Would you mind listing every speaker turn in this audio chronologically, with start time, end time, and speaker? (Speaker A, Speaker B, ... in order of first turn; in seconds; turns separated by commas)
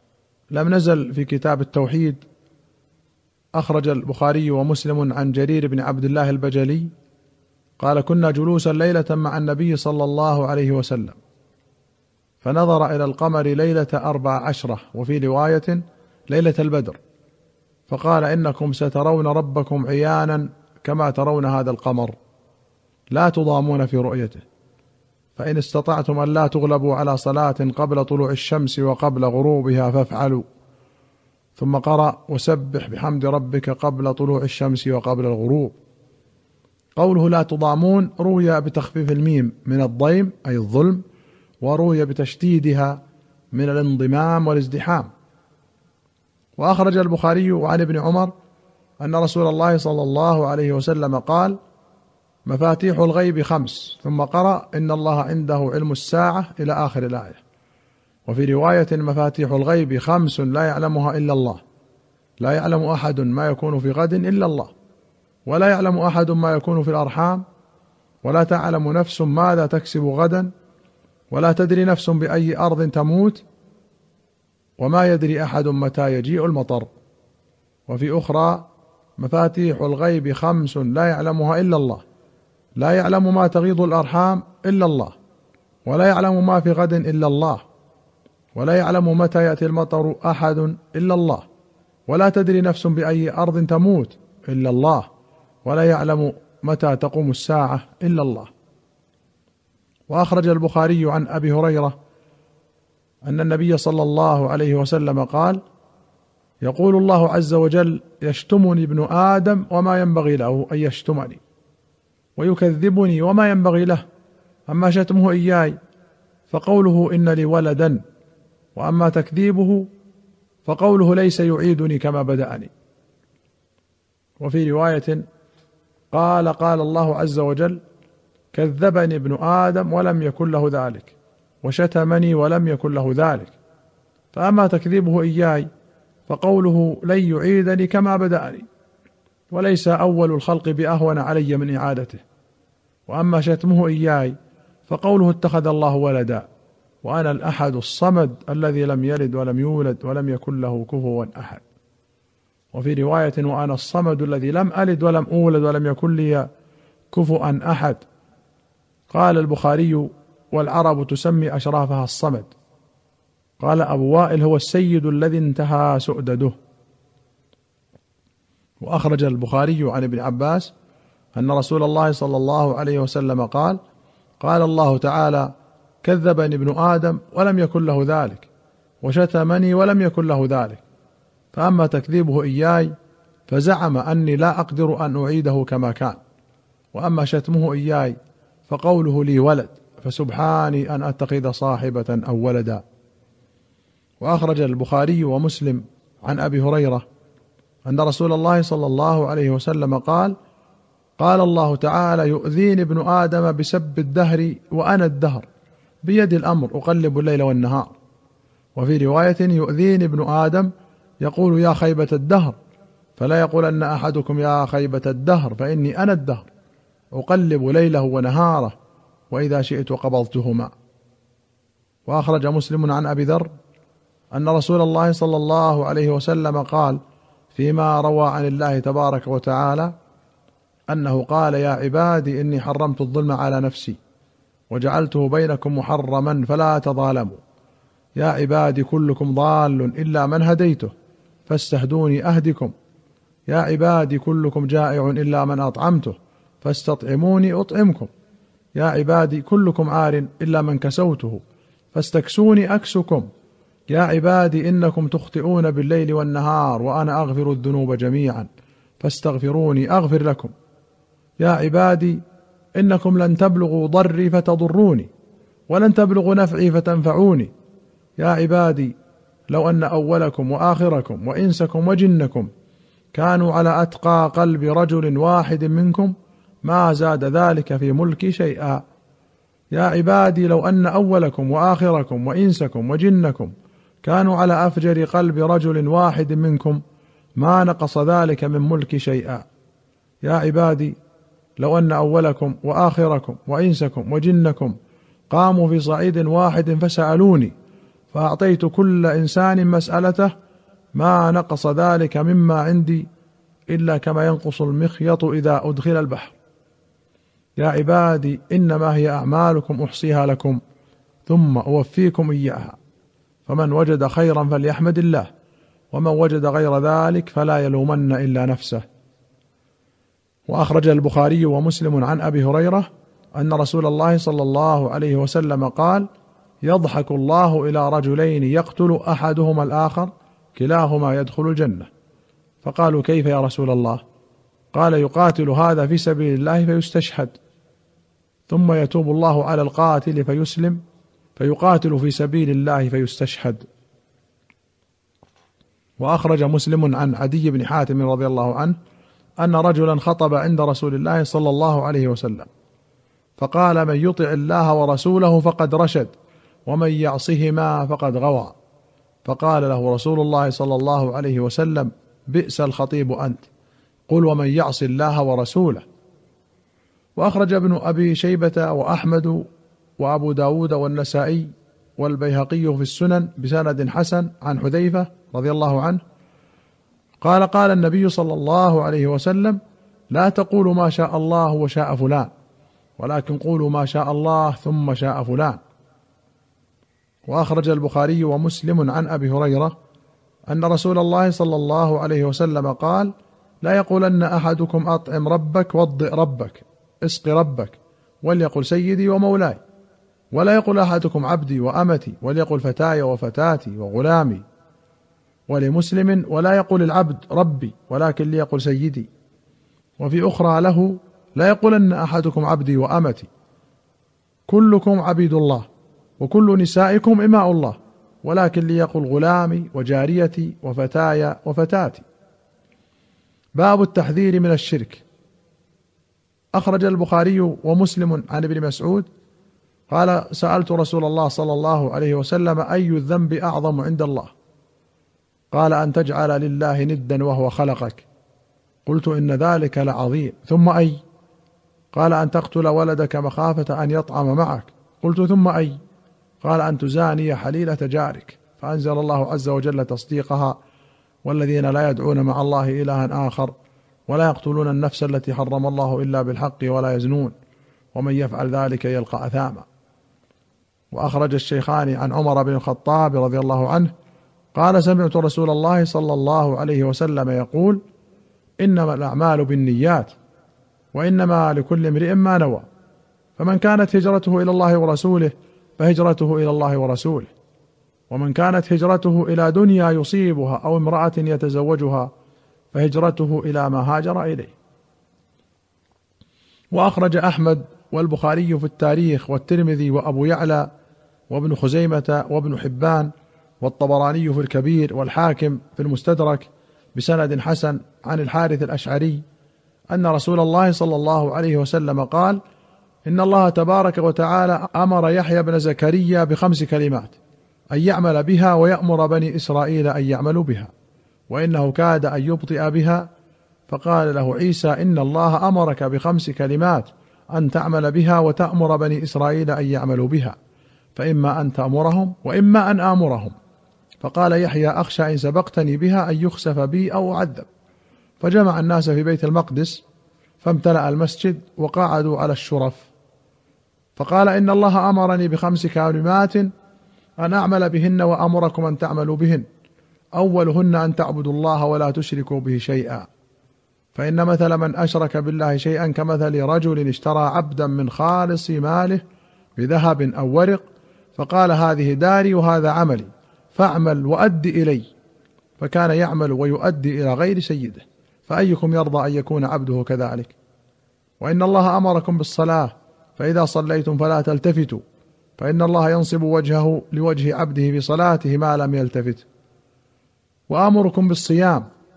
Speaker A: 0.5-2.2, Speaker A: 3.6-6.9, Speaker A: 7.8-11.2, Speaker A: 12.4-17.0, Speaker A: 17.9-22.2, Speaker A: 23.1-24.4, Speaker A: 25.4-30.5, Speaker A: 31.6-35.8, Speaker A: 37.0-41.0, Speaker A: 41.6-43.0, Speaker A: 43.5-45.1, Speaker A: 46.6-48.3, Speaker A: 49.0-51.6, Speaker A: 52.5-57.4, Speaker A: 58.3-61.6, Speaker A: 62.4-64.7, Speaker A: 65.5-67.5, Speaker A: 68.2-70.5, Speaker A: 71.3-73.4, Speaker A: 74.8-76.9, Speaker A: 77.9-78.7, Speaker A: 79.2-82.0, Speaker A: 82.8-85.2, Speaker A: 85.9-87.6, Speaker A: 88.5-91.5, Speaker A: 92.1-95.1, Speaker A: 95.7-98.5, Speaker A: 100.1-102.0, Speaker A: 103.2-105.6, Speaker A: 106.6-111.4, Speaker A: 112.4-114.0, Speaker A: 114.7-115.8, Speaker A: 116.5-118.0, Speaker A: 118.8-119.9, Speaker A: 120.7-122.7, Speaker A: 124.4-125.2, Speaker A: 126.1-127.8, Speaker A: 128.5-133.6, Speaker A: 134.3-135.7, Speaker A: 136.3-138.7, Speaker A: 139.5-142.2, Speaker A: 143.1-144.4, Speaker A: 144.9-146.5, Speaker A: 147.0-151.6, Speaker A: 152.7-156.5, Speaker A: 157.1-158.0, Speaker A: 159.1-162.5, Speaker A: 163.6-166.6, Speaker A: 168.8-170.7, Speaker A: 171.3-173.8, Speaker A: 174.4-175.5, Speaker A: 176.0-178.5, Speaker A: 179.0-180.8, Speaker A: 181.5-182.9, Speaker A: 183.5-186.2, Speaker A: 186.9-188.2, Speaker A: 188.7-192.8, Speaker A: 194.2-197.1, Speaker A: 197.8-200.3, Speaker A: 201.2-205.5, Speaker A: 206.0-207.9, Speaker A: 208.8-210.7, Speaker A: 211.2-212.6, Speaker A: 213.2-216.5, Speaker A: 217.1-218.8, Speaker A: 219.3-220.7, Speaker A: 222.1-223.5, Speaker A: 224.3-227.0, Speaker A: 227.5-229.9, Speaker A: 230.9-234.0, Speaker A: 234.7-237.4, Speaker A: 238.2-240.9, Speaker A: 241.5-242.7, Speaker A: 243.5-248.1, Speaker A: 248.8-253.3, Speaker A: 253.9-258.5, Speaker A: 259.0-260.5, Speaker A: 261.4-262.2, Speaker A: 262.8-265.1, Speaker A: 265.7-267.5, Speaker A: 268.2-268.9, Speaker A: 269.5-272.5, Speaker A: 273.1-278.8, Speaker A: 279.7-286.8, Speaker A: 287.4-289.5, Speaker A: 290.2-291.0, Speaker A: 291.6-294.8, Speaker A: 295.3-297.5, Speaker A: 298.1-300.3, Speaker A: 300.9-303.1, Speaker A: 303.7-306.3, Speaker A: 307.6-310.6, Speaker A: 311.3-312.8, Speaker A: 313.5-315.3, Speaker A: 315.9-318.8, Speaker A: 320.5-326.1, Speaker A: 326.6-331.9, Speaker A: 332.6-334.0, Speaker A: 334.7-337.4, Speaker A: 338.5-340.8, Speaker A: 341.4-343.6, Speaker A: 346.0-348.8, Speaker A: 349.4-352.5, Speaker A: 353.4-356.1, Speaker A: 356.7-358.5, Speaker A: 359.2-363.5, Speaker A: 364.1-365.8, Speaker A: 367.2-369.5, Speaker A: 370.0-376.0, Speaker A: 377.2-379.6, Speaker A: 380.1-382.3, Speaker A: 383.0-385.6, Speaker A: 387.3-389.7, Speaker A: 390.5-393.1, Speaker A: 393.6-399.6, Speaker A: 400.3-404.4, Speaker A: 405.5-409.1, Speaker A: 410.0-413.3, Speaker A: 414.5-415.6, Speaker A: 416.2-422.1, Speaker A: 423.6-425.0, Speaker A: 426.5-429.1, Speaker A: 429.9-434.3, Speaker A: 435.5-438.1, Speaker A: 438.9-441.0, Speaker A: 441.9-445.8, Speaker A: 446.4-450.6, Speaker A: 451.2-453.6, Speaker A: 454.1-457.4, Speaker A: 457.9-459.7, Speaker A: 460.9-463.9, Speaker A: 464.5-467.8, Speaker A: 468.6-470.1, Speaker A: 470.9-472.7, Speaker A: 473.4-477.3, Speaker A: 478.1-482.1, Speaker A: 482.7-484.6, Speaker A: 486.7-490.7, Speaker A: 491.3-499.2, Speaker A: 499.9-502.4, Speaker A: 503.1-507.2, Speaker A: 507.7-510.7, Speaker A: 511.3-513.1, Speaker A: 513.7-520.4, Speaker A: 521.0-523.4, Speaker A: 524.0-527.5, Speaker A: 528.2-529.8, Speaker A: 530.4-532.9, Speaker A: 534.0-536.5, Speaker A: 537.2-539.5, Speaker A: 540.2-543.1, Speaker A: 544.0-549.0, Speaker A: 549.6-550.6, Speaker A: 551.2-554.9, Speaker A: 555.6-560.4, Speaker A: 561.2-564.8, Speaker A: 565.4-569.3, Speaker A: 570.5-571.7